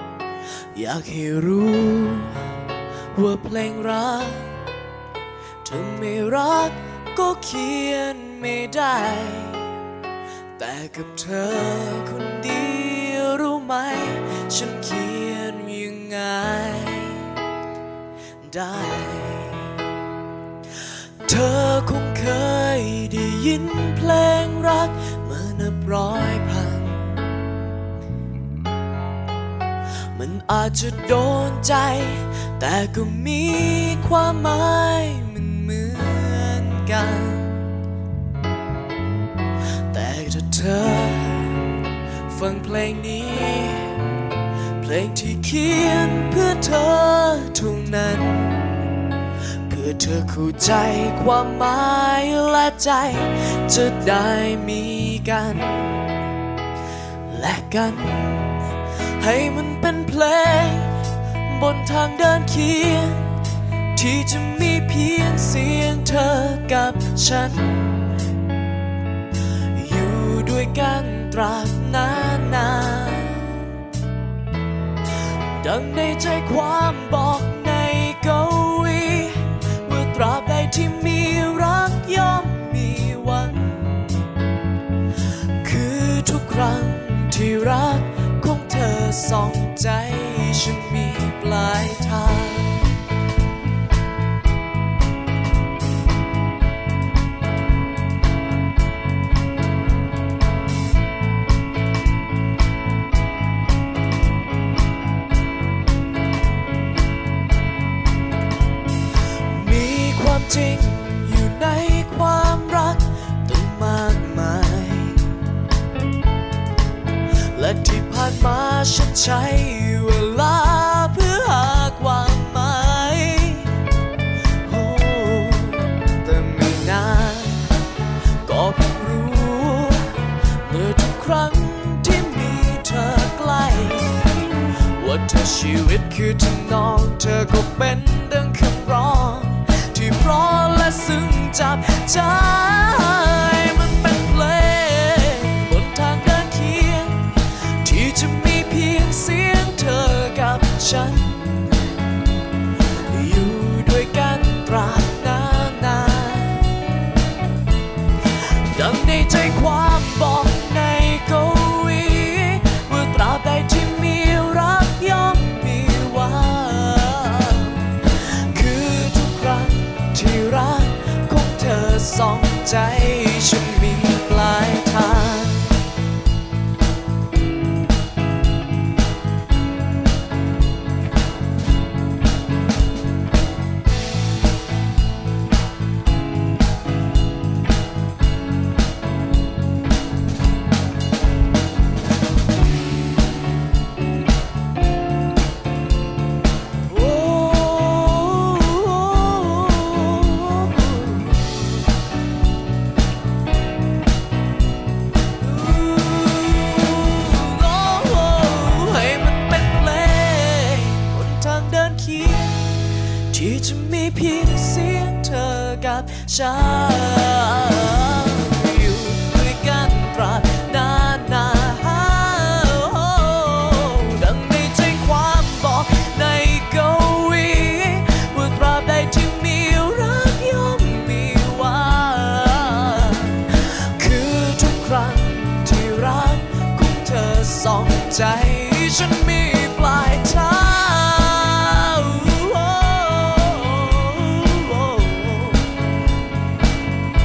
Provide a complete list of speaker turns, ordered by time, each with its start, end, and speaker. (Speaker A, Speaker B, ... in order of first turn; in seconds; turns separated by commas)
Speaker A: 0.7-2.3, Speaker A: 3.1-4.5, Speaker A: 5.6-9.6, Speaker A: 10.6-17.3, Speaker A: 18.4-19.7, Speaker A: 21.2-27.1, Speaker A: 30.1-37.6, Speaker A: 39.9-41.6, Speaker A: 42.3-43.9, Speaker A: 44.8-48.7, Speaker A: 49.7-56.0, Speaker A: 57.3-58.5, Speaker A: 59.2-60.9, Speaker A: 61.5-63.3, Speaker A: 63.9-68.0, Speaker A: 69.7-73.5, Speaker A: 75.6-84.0, Speaker A: 85.6-92.8, Speaker A: 109.5-115.2, Speaker A: 117.5-123.7, Speaker A: 124.6-127.6, Speaker A: 128.4-130.0, Speaker A: 130.7-147.3, Speaker A: 147.8-151.6, Speaker A: 153.1-156.7, Speaker A: 158.7-167.9, Speaker A: 168.5-175.8, Speaker A: 196.9-201.8, Speaker A: 205.4-233.4, Speaker A: 234.0-245.7